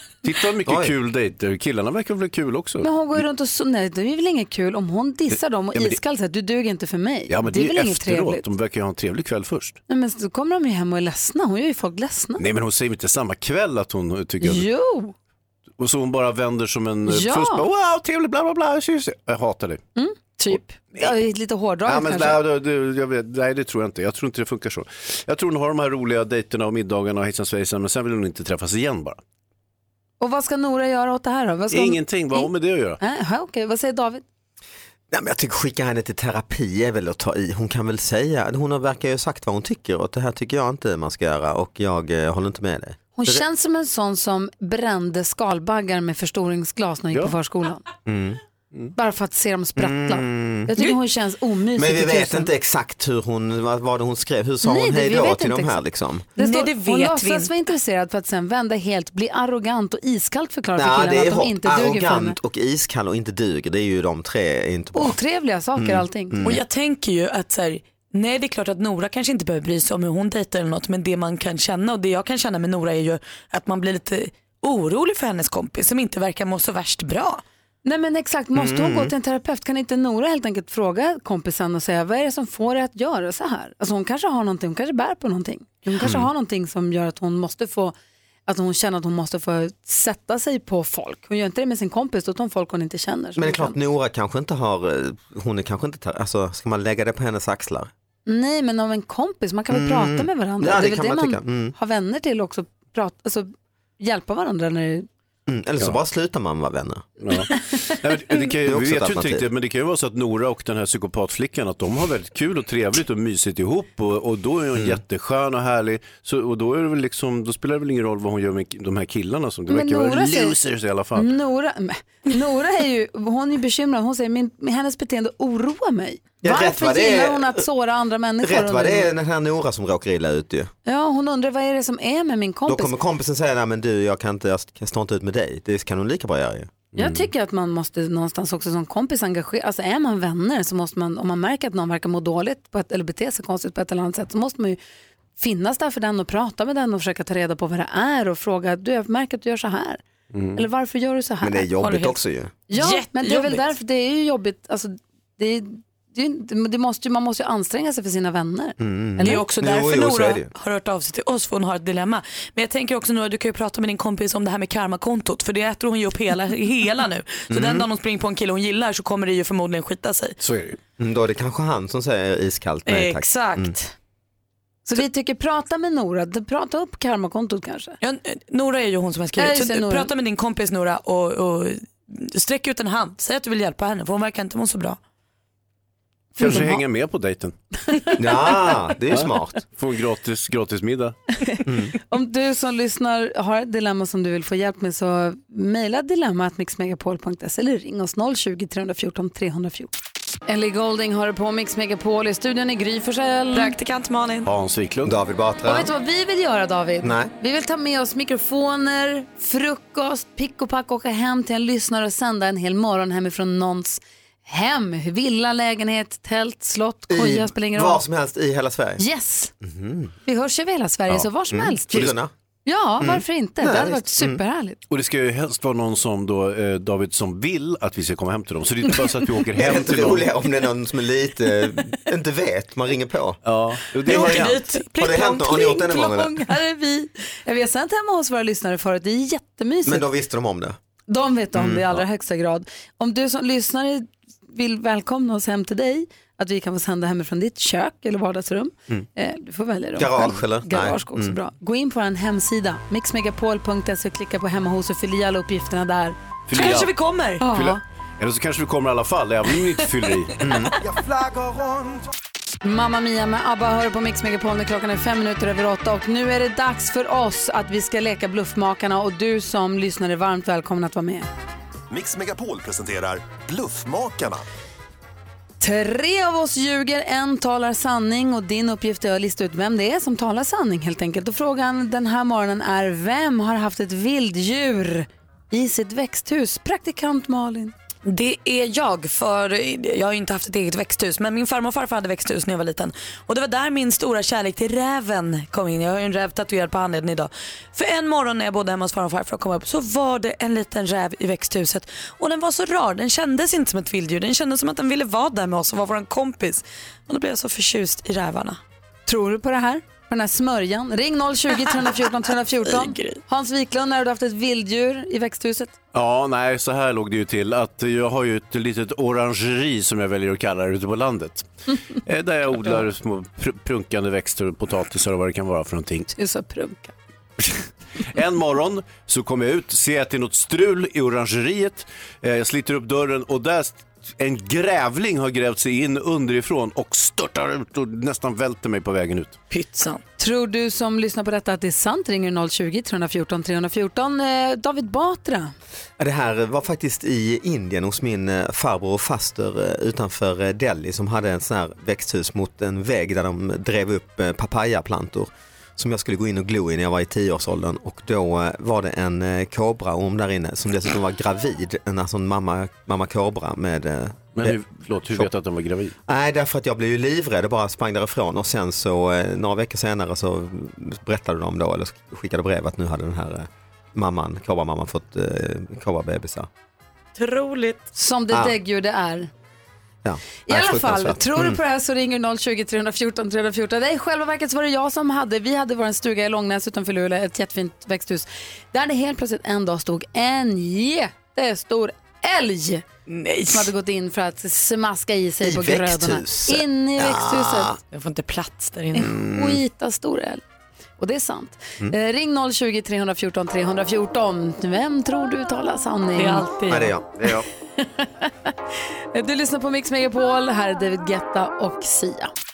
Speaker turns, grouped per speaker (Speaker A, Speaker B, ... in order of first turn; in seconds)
Speaker A: 0.2-2.9, 5.7-6.0, 7.3-9.8, 12.4-14.7, 15.8-19.8, 20.5-21.1, 21.8-29.2, 31.7-33.0, 107.2-121.3, 137.0-137.3, 150.3-150.6, 170.4-170.8, 186.3-187.6, 189.1-191.2, 204.4-205.1, 224.9-230.3, 233.4-234.4, 256.5-256.9, 257.4-260.4, 315.9-326.1, 328.0-339.4, 364.3-365.9
Speaker B: 0.7-0.9, 35.1-43.4, 48.0-48.4, 49.8-50.8, 51.8-56.3, 60.8-65.2, 65.8-66.6, 78.5-79.1, 86.0-86.3, 93.3-97.9, 99.7-101.7, 105.5-107.2, 108.6-109.5, 114.7-115.0, 126.4-127.6, 128.4-130.7, 132.7-136.9, 151.4-152.6, 158.8-160.5, 167.5-167.9, 171.0-173.8, 188.2-189.6, 191.7-191.9, 205.1-205.9, 207.0-207.3, 217.1-219.0, 219.6-220.1, 221.5-222.3, 223.0-224.4, 229.5-233.4, 234.0-236.4, 239.8-240.8, 241.5-242.0, 249.9-251.4, 260.4-260.7, 346.0-364.6, 366.1-376.5, 378.3-378.6, 380.0-381.6, 395.4-397.8, 399.1-399.6, 406.7-407.4
Speaker C: 2.8-8.4, 9.9-12.4, 14.4-15.1, 17.1-17.6, 19.9-22.4, 30.2-34.2, 43.1-47.8, 48.9-52.5, 54.6-55.8, 56.4-62.4, 64.9-66.4, 77.8-87.9, 88.5-93.8, 98.2-105.1, 119.7-120.6, 121.1-129.1, 130.8-132.9, 136.9-144.8, 145.4-150.0, 150.5-151.7, 152.7-159.4, 174.8-178.0, 179.4-180.1, 191.4-199.9, 200.5-203.7, 205.6-218.0, 219.0-219.5, 220.2-222.1, 222.7-224.8, 235.2-240.1, 241.1-256.1, 257.4-257.8, 262.6-271.3, 275.6-287.7, 309.1-315.7, 326.1-326.9, 340.2-345.5, 377.9-379.3, 380.5-392.8, 393.5-397.7, 398.9-400.4, 401.0-406.5, 407.8-408.5, 409.1-412.3
Speaker D: 56.4-57.5, 66.4-77.4, 151.8-153.7, 159.2-170.4, 172.8-173.9, 178.0-185.0, 203.5-204.5, 234.1-235.7, 256.5-257.5, 288.1-308.6, 312.6-313.2, 339.5-340.0, 377.1-377.8, 393.1-393.7, 397.9-399.1, 406.2-406.9
Speaker E: 260.8-262.1, 271.9-274.4